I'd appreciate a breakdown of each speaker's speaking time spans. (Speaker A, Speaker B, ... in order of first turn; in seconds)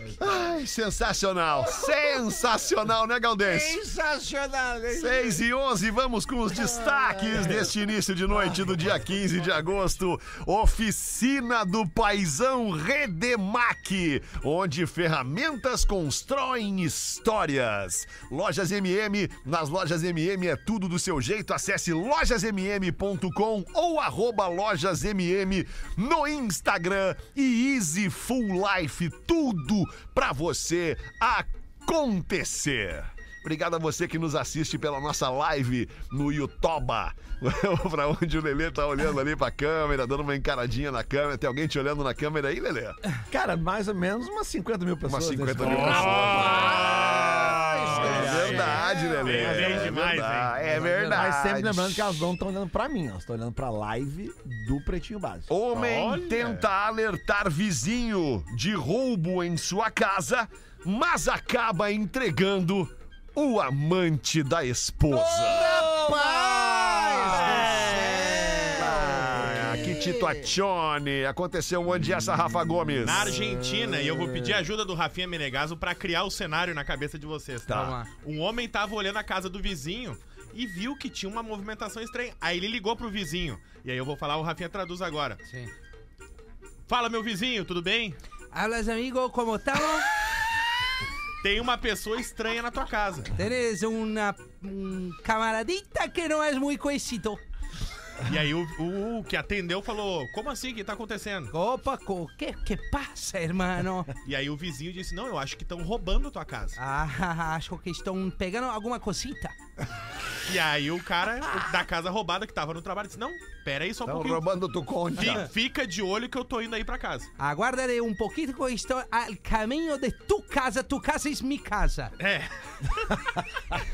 Speaker A: 0.2-3.8, 4.9-43.0, 45.0-52.3, 55.5-65.8, 67.3-68.0, 68.7-73.4, 77.7-78.0, 114.0-115.5
Speaker B: 3.4-5.4, 6.6-7.7, 46.2-49.6, 65.3-70.5
Speaker C: 43.3-46.6, 49.3-49.9, 51.1-55.5, 65.3-68.1, 68.6-69.8
Speaker D: 45.6-50.5, 55.7-56.6, 73.0-85.4, 86.9-88.2, 91.4-93.3, 98.2-101.5, 104.2-106.8, 110.5-114.5, 115.1-117.3, 122.2-123.2
Speaker E: 50.6-51.3, 77.7-78.1, 88.5-90.1, 93.3-97.4, 101.5-104.1, 106.8-109.5, 117.4-122.1